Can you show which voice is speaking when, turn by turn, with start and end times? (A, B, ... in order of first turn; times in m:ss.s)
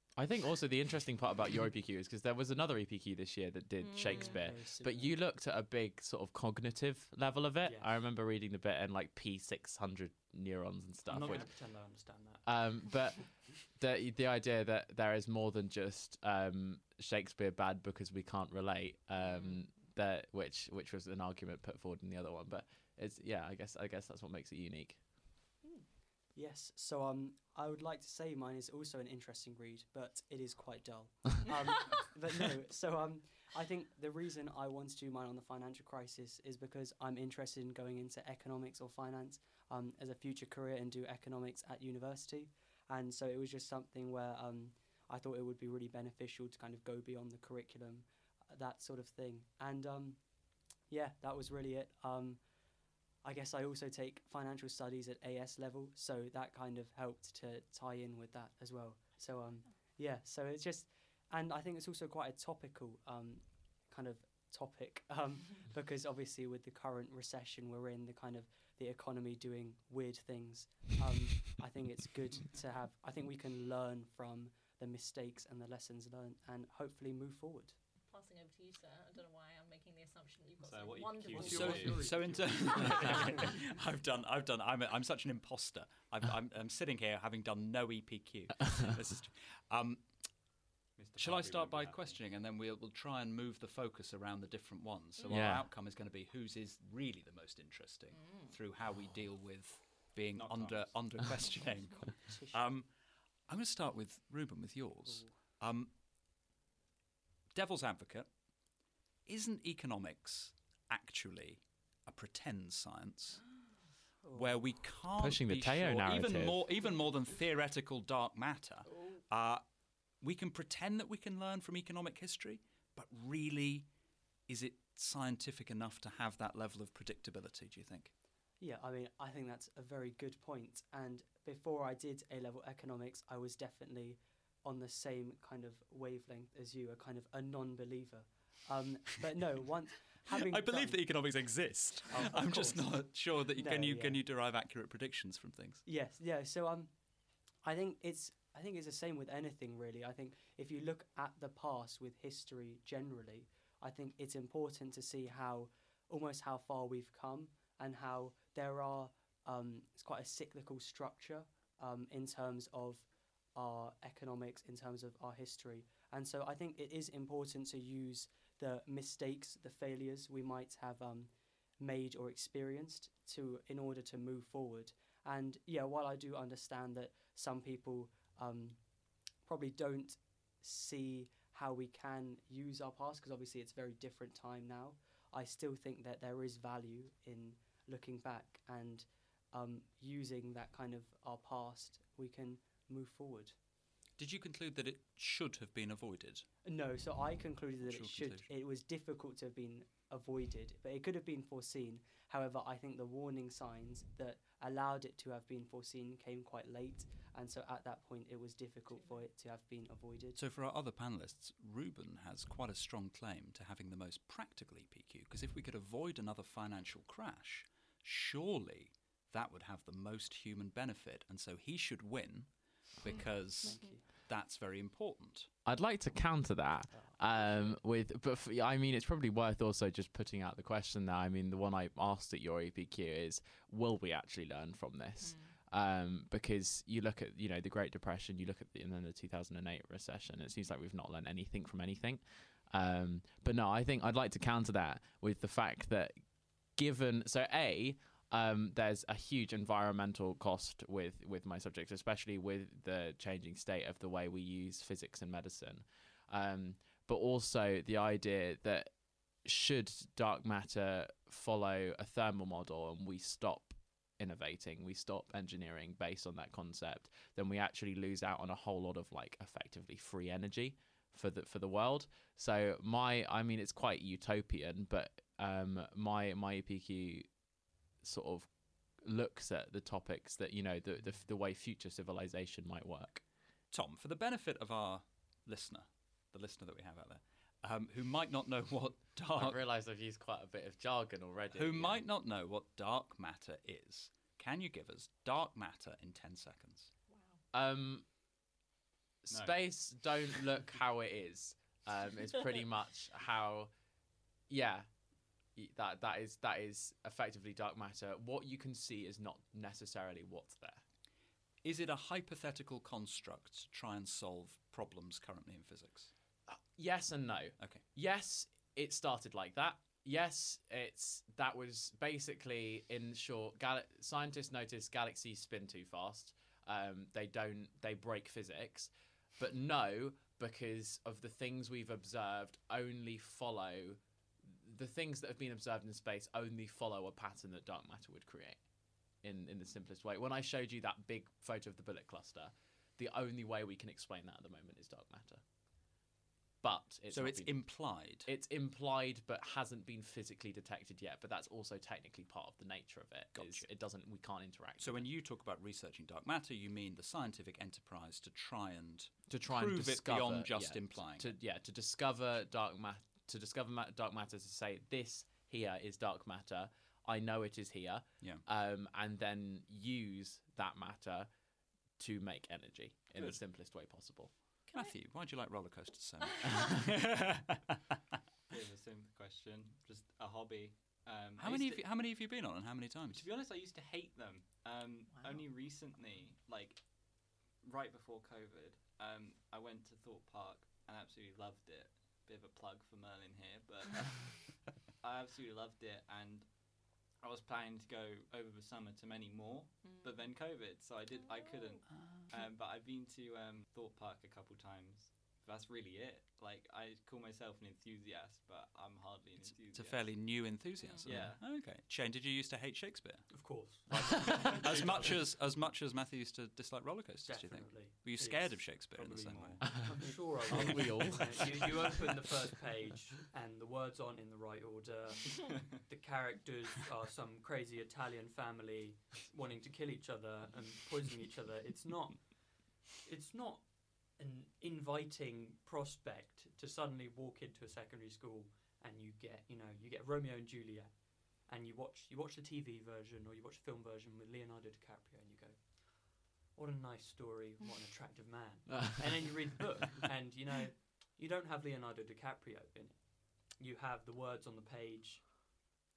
0:00.2-0:25.1 A
0:03.8-0:04.5 B
0:04.0-0:05.2 C
0:07.6-0:08.0 D
0:11.0-0:13.2 D
0:19.2-0:19.6 B
0:26.3-1:17.8 C
1:18.0-1:22.0 B
1:20.6-1:22.9 E
1:21.3-1:23.1 D
1:21.4-1:30.4 F
1:22.7-1:23.2 B
1:31.0-1:32.2 E
1:31.2-1:46.0 F
1:35.2-1:35.5 B
1:35.3-1:35.7 A
1:38.1-1:38.5 B
1:40.3-1:41.4 E
1:41.7-1:42.6 C
1:45.0-1:45.4 C
1:47.5-1:48.7 F
1:49.2-1:53.5 F
1:54.2-1:54.8 C
1:54.3-2:08.1 F
1:55.2-1:56.6 A
2:08.6-2:24.2 C
2:20.2-2:25.8 F
2:25.8-3:13.6 C
3:14.2-3:16.5 F
3:16.6-3:30.4 C
3:17.8-3:18.5 F
3:30.4-3:45.5 F
3:43.2-3:44.1 C
3:43.6-3:44.0 B
3:45.6-4:37.4 A
3:46.9-3:47.2 C
3:55.2-3:55.6 B
4:38.0-4:43.2 A
4:43.7-4:49.6 F
4:49.3-4:52.0 A
4:51.5-4:57.0 F
4:57.1-4:57.4 B
4:57.5-4:58.2 A
4:59.2-5:03.7 A
4:59.3-5:00.3 E
5:04.5-5:05.0 A
5:05.5-5:10.8 A
5:11.6-5:16.1 F
5:16.5-5:45.4 A
5:17.6-5:17.8 F
5:46.6-5:55.1 A
5:47.1-5:48.3 F
5:53.3-5:53.7 F
5:54.8-6:01.3 F
5:59.3-6:11.3 A
6:12.0-6:14.4 A
6:13.2-6:13.4 F
6:14.7-6:15.0 B
6:14.7-6:17.6 F
6:16.2-6:16.7 B
6:18.5-6:22.1 E
6:21.4-6:23.3 F
6:23.1-6:51.7 E
6:25.1-6:25.5 B
6:39.8-6:40.4 B
6:41.2-6:42.5 B
6:41.9-6:42.3 F
6:49.4-7:00.0 F
6:50.8-6:51.1 B
6:53.3-6:55.3 D
6:57.2-7:35.6 D
6:59.3-6:59.7 E
6:59.8-7:02.0 A
7:00.6-7:01.2 F